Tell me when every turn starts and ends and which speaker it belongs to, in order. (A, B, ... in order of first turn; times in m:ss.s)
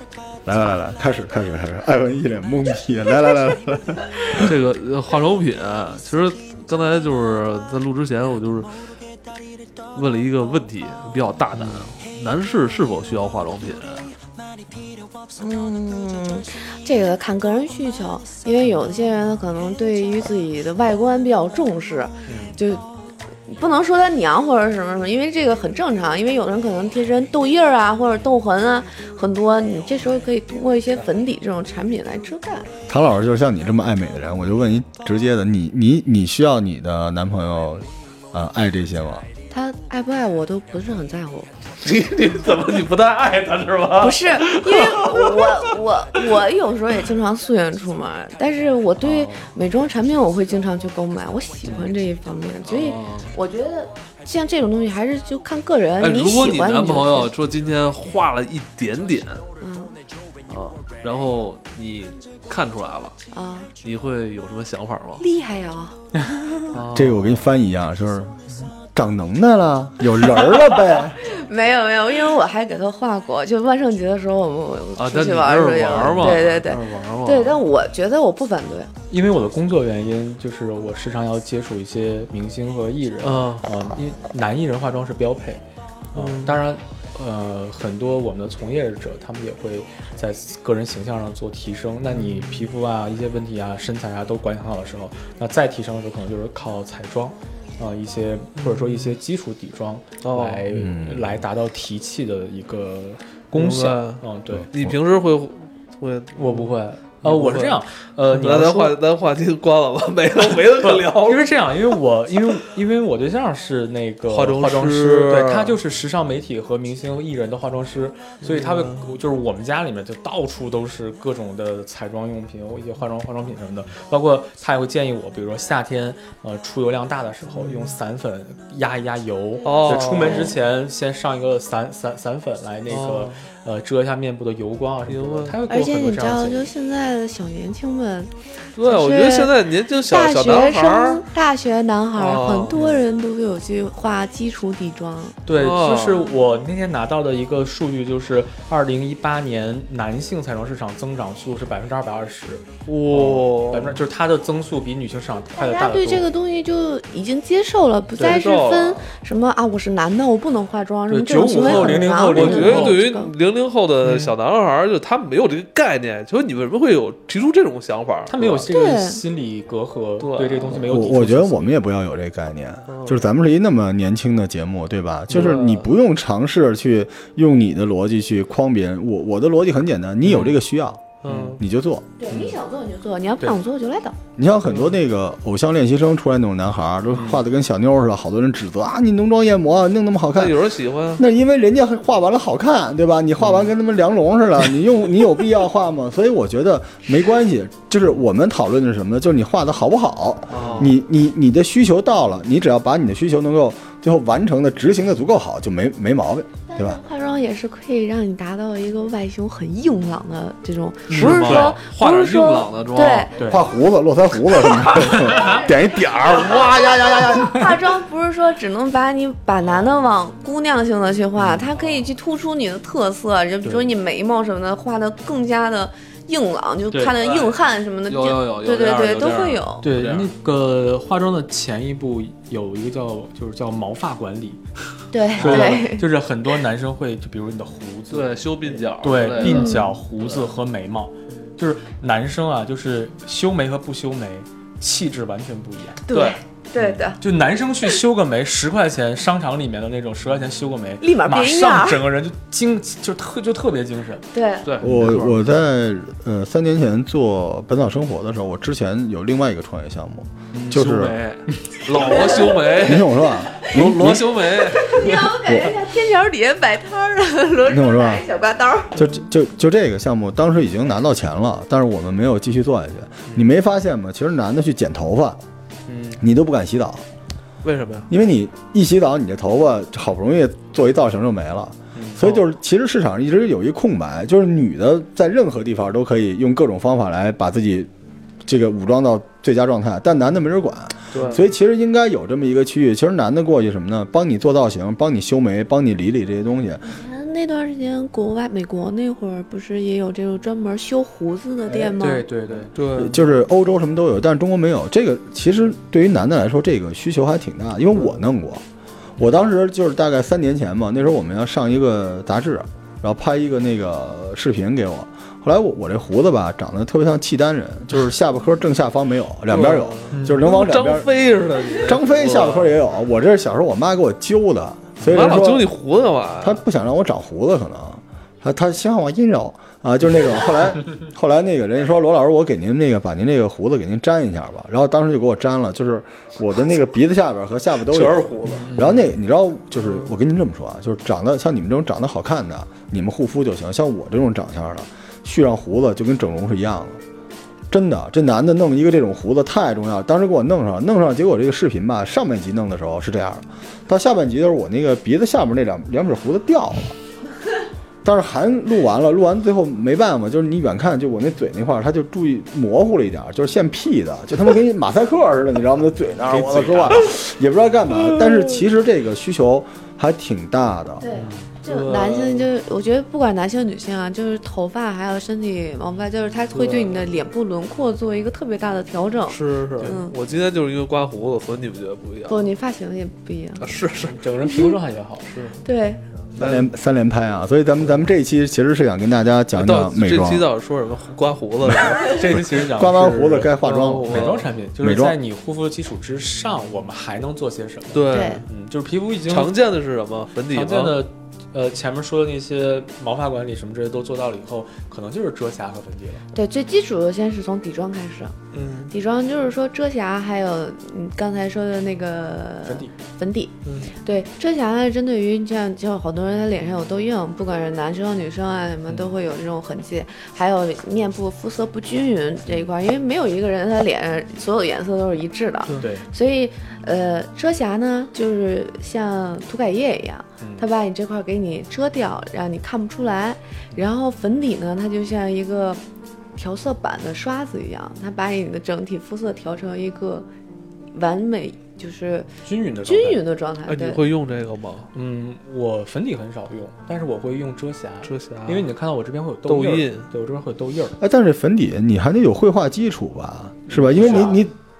0:00.4-0:04.5 A
0:04.4-0:08.7 B
0:09.9-0:14.1 B
0:11.6-0:11.8 C
0:15.4-0:22.8 D
0:22.2-0:22.6 C
0:23.5-0:32.7 D
0:32.9-0:39.3 A
0:39.5-0:41.5 D
0:41.8-0:46.4 B
0:44.0-0:57.3 D
0:49.0-0:49.5 B
0:51.6-0:51.9 C
0:52.6-0:53.3 B
0:56.0-0:59.4 B
0:59.6-0:59.9 D
1:00.5-1:03.2 B
1:03.3-1:03.7 D
1:03.8-1:05.2 B
1:05.2-1:06.0 D
1:06.1-1:06.4 C
1:06.7-1:07.5 B
1:06.9-1:11.2 A
1:11.2-1:18.9 D
1:15.0-1:17.6 B
1:16.1-1:16.4 A
1:19.1-1:44.7 C
1:23.2-1:23.7 B
1:26.1-1:26.6 B
1:32.1-1:32.6 B
1:40.2-1:40.7 B
1:40.7-1:41.4 A
1:43.5-1:51.4 B
1:44.5-1:44.9 A
1:46.4-1:49.0 C
1:50.8-2:16.7 C
1:54.3-1:55.8 B
1:58.4-1:59.2 B
2:07.6-2:08.0 B
2:09.6-2:10.5 B
2:10.0-2:10.6 D
2:12.9-2:13.4 B
2:15.1-2:15.6 B
2:15.7-2:25.4 D
2:18.8-2:21.2 B
2:22.1-2:22.9 B
2:25.4-2:36.3 C
2:25.5-2:26.4 B
2:32.8-2:34.0 B
2:35.5-2:43.3 D
2:38.2-2:38.4 C
2:38.2-2:39.1 B
2:41.1-2:43.0 C
2:41.6-2:48.7 B
2:44.0-2:44.3 C
2:48.3-2:51.8 C
2:48.7-2:49.2 D
2:50.2-2:50.8 B
2:50.7-3:02.0 A
2:52.9-2:53.3 B
2:55.3-2:55.9 B
3:01.2-3:01.6 B
3:01.3-3:01.6 C
3:02.2-3:04.2 D
3:02.3-3:02.6 C
3:04.4-3:10.6 A
3:07.1-3:07.4 C
3:10.3-3:11.2 B
3:11.2-3:27.0 A
3:20.5-3:21.0 B
3:26.7-3:33.5 D
3:31.1-3:33.3 B
3:31.1-3:31.8 C
3:33.4-3:33.7 C
3:33.4-3:37.6 A
3:34.5-3:49.8 D
3:34.9-3:35.6 C
3:41.4-3:41.7 C
3:43.6-3:43.9 C
3:46.9-3:47.2 C
3:47.2-3:50.3 B
3:49.8-3:54.6 C
3:55.1-3:56.0 D
3:55.3-3:58.3 C
3:55.4-3:55.7 B
3:58.1-3:59.7 B
3:59.0-4:06.0 C
3:59.4-3:59.9 D
4:06.1-4:07.2 D
4:06.1-4:06.4 B
4:06.8-4:14.2 C
4:11.0-4:12.0 D
4:14.3-4:14.8 D
4:14.6-4:15.4 B
4:14.8-4:21.2 A
4:14.8-4:15.1 C
4:20.5-4:25.2 B
4:22.8-4:24.3 A
4:24.5-4:28.9 D
4:25.2-4:25.7 A
4:27.6-4:28.2 A
4:28.9-4:35.4 A
4:33.3-4:33.5 C
4:35.9-4:36.2 C
4:36.2-4:37.0 A
4:37.6-4:38.1 B
4:38.1-4:47.9 A
4:41.9-4:42.4 C
4:48.4-4:56.8 A
4:51.1-4:51.5 C
4:51.1-4:51.5 B
4:56.8-5:02.2 D
5:01.6-5:03.4 C
5:02.7-5:03.2 B
5:03.0-5:08.6 A
5:09.2-5:09.5 C
5:09.2-5:21.1 A
5:19.5-5:22.8 B
5:20.1-5:20.5 C
5:21.8-5:25.7 A
5:25.0-5:25.4 C
5:25.1-5:26.6 B
5:26.4-5:47.0 A
5:37.9-5:38.8 B
5:38.6-5:39.1 C
5:39.8-5:40.1 B
5:47.7-5:56.9 A
5:58.0-6:11.0 A
6:06.2-6:07.2 B
6:07.9-6:08.6 B
6:11.0-6:20.2 D
6:11.1-6:11.5 C
6:11.5-6:12.5 B
6:16.5-6:16.9 C
6:19.2-6:22.5 B
6:22.3-6:23.6 D
6:23.6-6:24.3 B
6:24.0-6:25.3 C
6:24.4-6:24.8 D
6:25.2-6:25.6 B
6:25.6-6:26.0 D
6:26.4-6:26.7 B
6:26.4-6:30.5 A
6:29.5-6:32.1 B
6:32.0-6:39.5 C
6:32.3-6:35.2 A
6:33.6-6:34.5 B
6:37.9-6:38.4 B
6:38.1-6:38.4 D
6:39.2-6:41.0 B
6:40.5-6:46.2 C
6:46.3-6:48.3 D
6:48.5-6:48.9 C
6:48.9-7:15.8 D
6:52.6-6:52.9 C
6:58.8-6:59.1 C
7:05.8-7:06.1 C
7:10.4-7:10.7 C
7:16.4-7:20.3 D
7:20.9-7:22.3 D
7:22.4-7:23.2 C
7:22.8-7:24.0 D
7:23.6-7:24.9 B
7:24.9-7:31.0 C
7:28.0-7:28.7 B
7:29.4-7:30.1 B
7:31.0-7:34.5 A
7:33.7-7:34.4 C
7:33.8-7:34.4 B